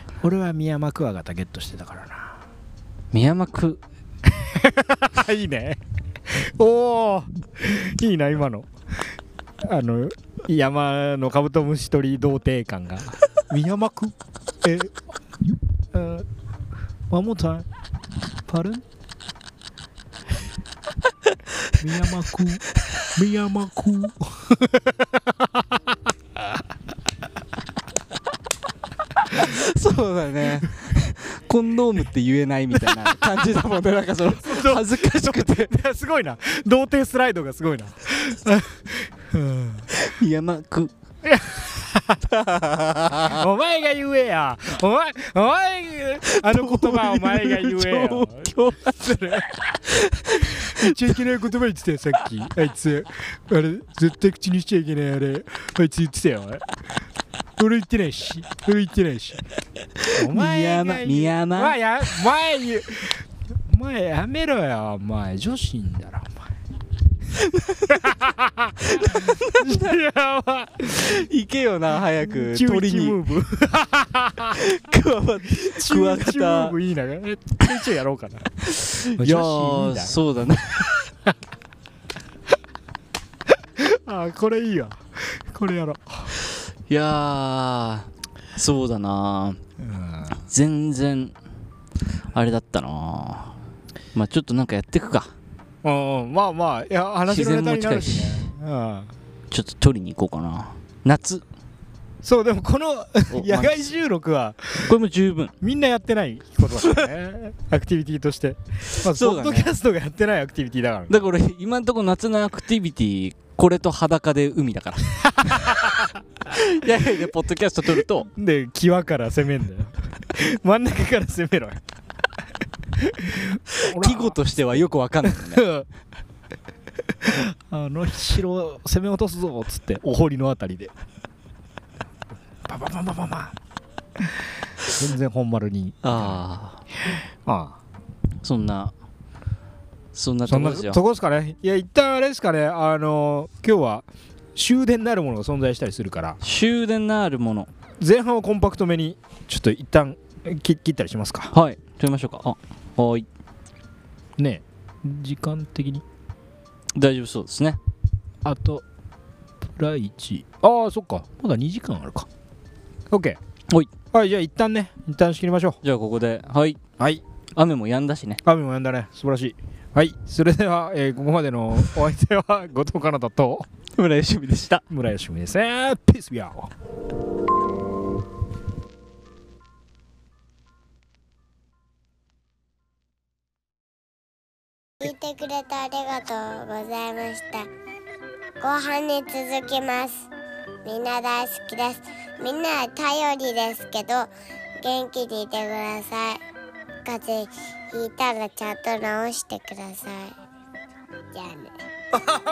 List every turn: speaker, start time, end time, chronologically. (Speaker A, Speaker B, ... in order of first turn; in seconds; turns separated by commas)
Speaker A: 0.2-2.4, Speaker B: 3.1-3.8, Speaker A: 4.3-5.8, Speaker A: 6.3-8.7, Speaker A: 9.6-14.9, Speaker A: 15.9-16.3, Speaker A: 17.1-17.7, Speaker A: 18.5-18.8, Speaker A: 21.8-25.1, Speaker B: 29.3-35.7, Speaker A: 34.4-39.9, Speaker B: 39.9-40.9, Speaker A: 41.2-42.3, Speaker B: 42.3-43.4, Speaker A: 43.2-49.6, Speaker B: 46.3-49.0, Speaker B: 49.9-51.2, Speaker A: 50.4-56.6, Speaker A: 57.6-59.4, Speaker B: 60.0-61.8, Speaker A: 60.1-66.4, Speaker B: 67.3-68.2, Speaker A: 67.9-71.2, Speaker B: 68.9-70.0, Speaker B: 71.0-73.2, Speaker A: 72.3-74.7, Speaker B: 74.5-76.8, Speaker A: 75.5-80.2, Speaker B: 78.8-80.9, Speaker A: 83.8-86.3, Speaker B: 86.9-89.6, Speaker A: 89.8-90.4, Speaker B: 90.4-91.3, Speaker B: 92.3-93.6, Speaker B: 94.2-95.3, Speaker A: 95.8-99.1, Speaker B: 97.3-98.5, Speaker B: 99.5-101.4, Speaker A: 102.2-104.9, Speaker B: 103.3-103.9, Speaker B: 104.8-105.5, Speaker A: 105.6-111.2, Speaker B: 106.8-107.1, Speaker B: 109.0-109.7, Speaker B: 111.1-115.6, Speaker A: 115.3-116.1, Speaker B: 116.5-118.3, Speaker A: 118.3-121.8, Speaker A: 123.0-124.4, Speaker B: 123.8-125.7, Speaker A: 125.2-125.9, Speaker A: 127.2-130.9, Speaker A: 132.7-133.5, Speaker A: 134.8-136.4, Speaker B: 136.0-136.8, Speaker A: 137.0-137.8, Speaker B: 138.4-138.9, Speaker B: 140.1-141.0, Speaker A: 140.5-146.4, Speaker B: 146.4-147.7, Speaker A: 148.0-151.6, Speaker B: 151.5-153.3, Speaker A: 154.4-156.0, Speaker B: 156.9-157.8, Speaker A: 158.4-158.8, Speaker A: 159.6-162.3, Speaker A: 163.1-163.4, Speaker A: 164.1-165.8, Speaker B: 165.8-166.8, Speaker B: 167.6-168.4, Speaker A: 168.4-173.7, Speaker B: 173.9-174.8, Speaker A: 174.9-176.7, Speaker C: 185.0-187.7, Speaker C: 188.6-190.3, Speaker C: 190.8-196.4, Speaker C: 197.1-200.3, Speaker C: 201.3-201.7